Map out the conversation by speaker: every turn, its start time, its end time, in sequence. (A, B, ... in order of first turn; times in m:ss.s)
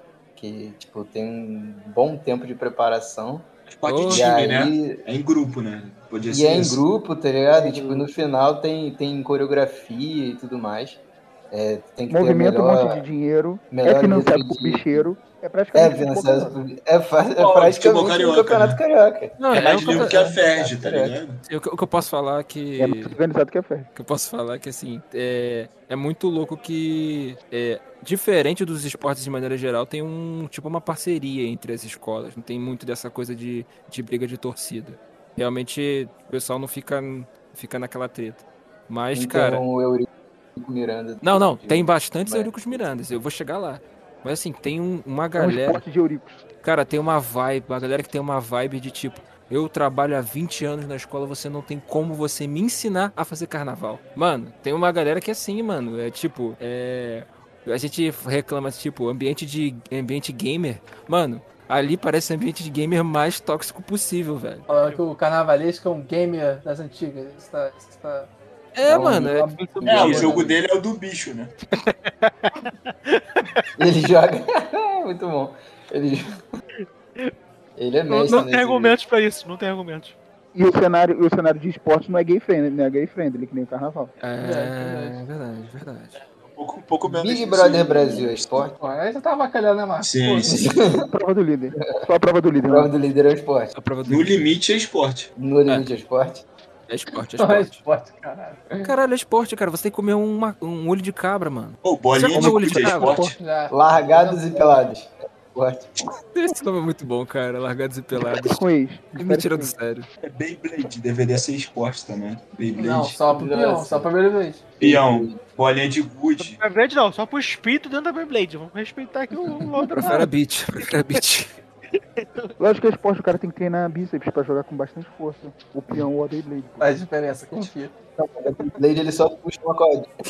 0:00.4-0:03.5 A
0:03.7-0:06.8 B
0:03.8-0:04.3 C
0:04.1-0:05.0 A
0:06.3-0:13.0 A
0:07.6-0:08.1 D
0:12.1-0:16.6 E
0:13.7-0:15.0 A
0:15.7-0:21.2 A
0:17.4-0:18.8 B
0:19.4-0:20.4 C
0:19.5-0:21.4 B
0:21.5-0:23.2 C
0:22.8-0:23.9 E
0:24.0-0:39.6 C
0:39.2-0:42.7 A
0:41.2-0:45.8 C
0:45.4-0:46.4 E
0:46.6-1:04.7 C
1:04.7-1:08.3 D
1:04.7-1:05.0 F
1:08.7-1:09.6 C
1:08.8-1:10.6 D
1:09.8-1:10.6 A
1:09.8-1:11.5 B
1:12.1-1:13.6 F
1:13.8-1:16.4 A
1:17.8-1:19.0 A
1:18.1-1:20.2 F
1:20.5-1:24.1 E
1:24.2-1:26.2 C
1:24.4-1:25.2 D
1:26.2-1:28.6 B
1:27.0-1:28.8 A
1:28.8-1:30.7 D
1:30.0-1:30.7 B
1:30.5-1:31.1 A
1:31.0-1:32.9 E
1:32.7-1:33.7 A
1:33.8-1:34.4 C
1:34.0-1:35.3 B
1:35.4-1:36.4 A
1:36.9-1:37.8 C
1:37.4-1:38.9 D
1:38.8-1:43.2 C
1:41.8-1:43.4 B
1:42.3-1:43.4 E
1:43.2-1:44.8 D
1:43.7-1:45.9 A
1:46.3-1:50.1 C
1:48.3-1:49.8 E
1:50.2-1:53.2 B
1:52.8-1:54.6 D
1:53.3-1:54.1 A
1:54.8-1:55.4 A
1:54.8-1:56.6 B
1:56.4-2:00.2 F
1:59.8-2:00.3 D
2:00.0-2:01.5 C
2:00.8-2:01.2 F
2:01.9-2:02.5 F
2:02.6-2:06.9 E
2:06.8-2:07.9 D
2:08.2-2:10.1 A